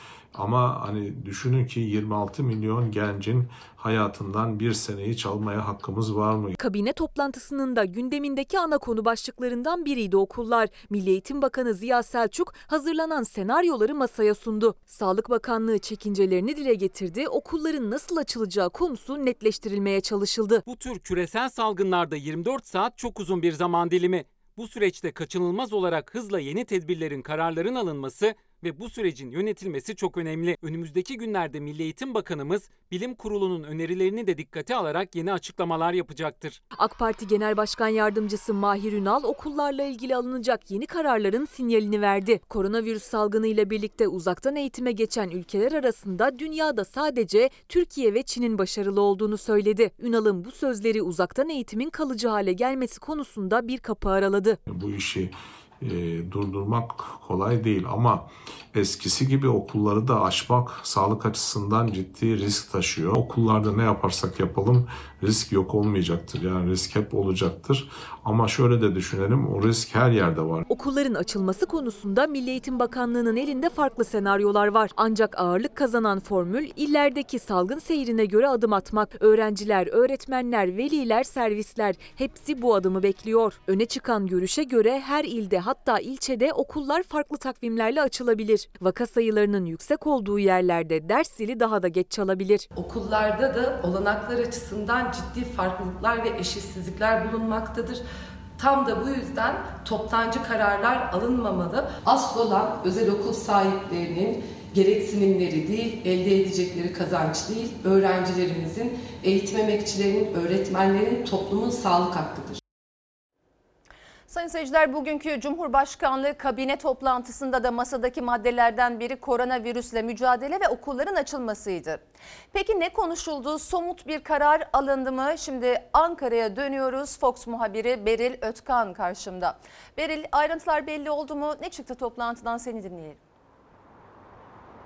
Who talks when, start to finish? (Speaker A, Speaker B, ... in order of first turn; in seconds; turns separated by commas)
Speaker A: 0.3-6.5, Speaker B: 6.6-20.6, Speaker C: 20.6-36.6, Speaker B: 36.8-54.6, Speaker A: 54.7-70.6, Speaker B: 70.7-92.7, Speaker D: 92.7-98.0, Speaker D: 98.6-112.6, Speaker E: 114.3-122.0, Speaker E: 122.5-133.2